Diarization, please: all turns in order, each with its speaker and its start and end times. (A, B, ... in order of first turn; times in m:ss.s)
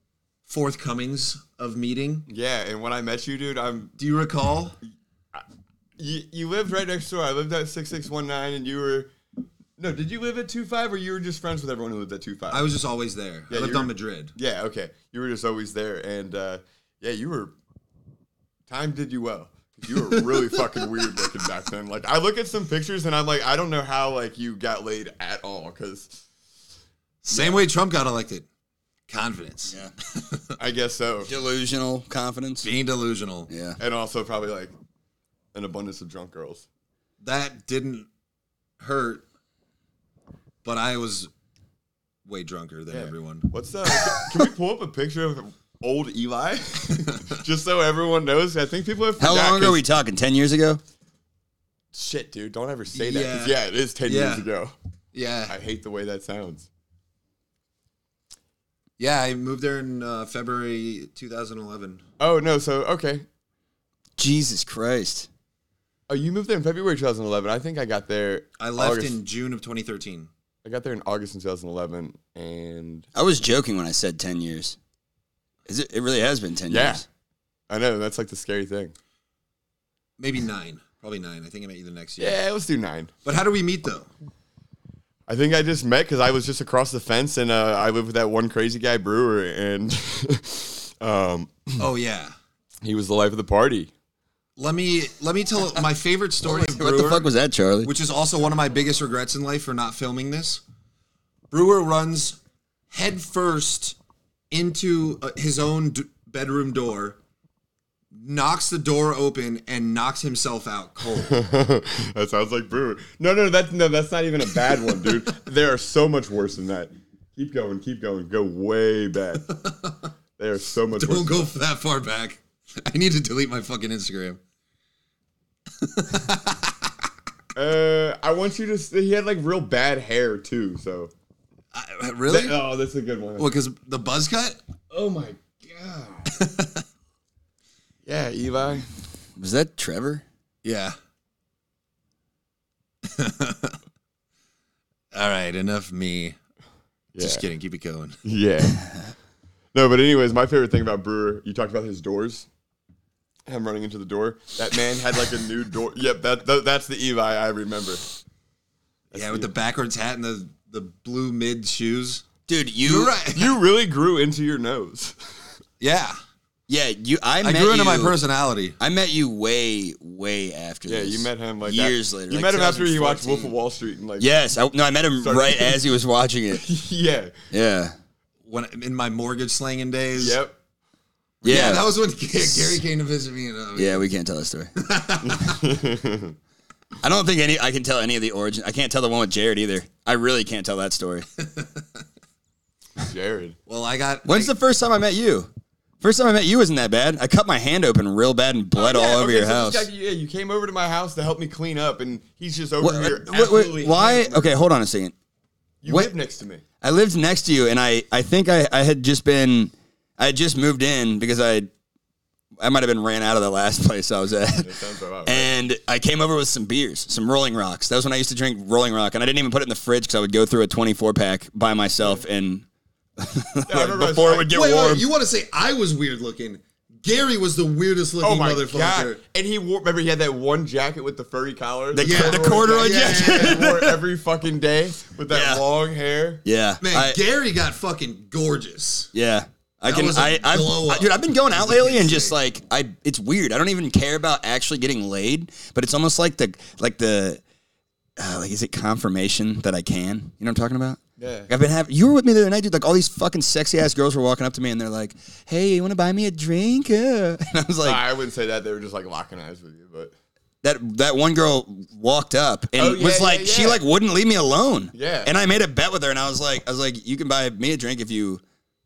0:00.5-0:02.3 A
0:02.3-0:03.9 B
0:04.0-0:04.8 A
0:06.0-0:09.1 B
0:09.8-0:12.7 B
0:12.5-0:14.3 A
0:13.5-0:17.6 B
0:18.7-0:26.2 B
0:27.2-0:28.5 A
0:29.1-0:30.6 A
0:30.6-0:31.3 B
0:31.2-0:32.7 C
0:32.6-0:33.5 A
0:33.5-0:33.8 C
0:33.8-0:34.7 B
0:35.5-0:36.6 B
0:37.2-0:38.1 A
0:38.8-0:39.2 A
0:40.6-0:41.3 A
0:42.2-0:43.5 A
0:42.9-0:49.8 B
0:44.0-0:44.3 C
0:46.9-0:47.4 A
0:49.2-0:50.8 C
0:51.9-0:54.7 B
0:52.9-0:54.5 A
0:55.1-0:55.6 A
0:55.5-0:56.7 B
0:59.0-1:02.0 A
1:02.2-1:03.2 B
1:04.2-1:05.3 C
1:06.1-1:09.2 B
1:08.6-1:10.3 A
1:10.6-1:13.1 B
1:13.1-1:14.8 C
1:15.7-1:17.0 C
1:16.7-1:17.0 B
1:17.7-1:18.9 B
1:20.2-1:22.4 A
1:22.2-1:23.1 B
1:23.2-1:24.1 A
1:25.3-1:31.8 B
1:31.8-1:32.4 A
1:32.8-1:33.9 B
1:34.6-1:37.3 A
1:36.4-1:37.9 C
1:37.8-1:40.6 A
1:41.5-1:42.4 A
1:42.9-1:44.0 A
1:44.5-1:47.2 A
1:48.1-1:51.4 A
1:51.1-1:59.5 B
1:59.5-2:00.1 A
2:00.4-2:01.5 B
2:01.0-2:04.4 A
2:05.8-2:06.9 A
2:07.6-2:11.1 B
2:11.7-2:12.6 A
2:12.3-2:13.5 B
2:13.4-2:14.6 A
2:14.9-2:16.3 B
2:16.3-2:16.8 A
2:18.1-2:18.9 B
2:19.4-2:20.2 C
2:20.6-2:21.0 A
2:23.0-2:23.8 A
2:25.1-2:26.4 A
2:27.1-2:27.4 B
2:27.2-2:28.2 A
2:28.2-2:28.8 B
2:28.8-2:29.1 C
2:29.7-2:32.5 B
2:33.5-2:38.0 B
2:39.1-2:39.5 B
2:39.1-2:42.2 A
2:42.5-2:43.2 C
2:42.8-2:43.6 A
2:43.3-2:45.2 B
2:45.8-2:46.2 A
2:46.7-2:48.2 C
2:47.4-2:48.8 A
2:48.8-2:53.5 C
2:50.9-2:54.3 B
2:54.2-2:56.7 C
2:55.2-2:55.8 B
2:56.5-2:57.4 B
2:57.5-2:58.0 C
2:58.5-3:00.4 A
3:00.2-3:00.6 B
3:01.4-3:02.8 C
3:01.4-3:04.0 A
3:03.8-3:04.8 C
3:04.8-3:05.6 A
3:05.2-3:06.4 B
3:07.0-3:11.3 C
3:11.4-3:12.0 A
3:13.0-3:13.6 B
3:13.7-3:14.5 A
3:14.2-3:15.5 C
3:16.0-3:19.8 C
3:18.8-3:24.5 B
3:22.8-3:25.1 C
3:25.8-3:26.6 B
3:26.8-3:31.7 C
3:32.6-3:42.6 C
3:34.6-3:35.5 B
3:43.2-3:45.0 C
3:43.7-3:44.5 B
3:44.4-3:49.2 A
3:48.2-3:56.4 B
3:51.9-3:54.0 C
3:52.0-3:53.6 A
3:55.3-3:55.6 C
3:56.4-3:57.2 C
3:56.8-3:59.1 A
3:59.1-4:07.4 C
3:59.8-4:02.4 A
4:08.2-4:18.0 C
4:11.2-4:11.5 B
4:17.8-4:20.1 B
4:20.6-4:28.4 C
4:22.8-4:23.8 B
4:24.9-4:25.3 B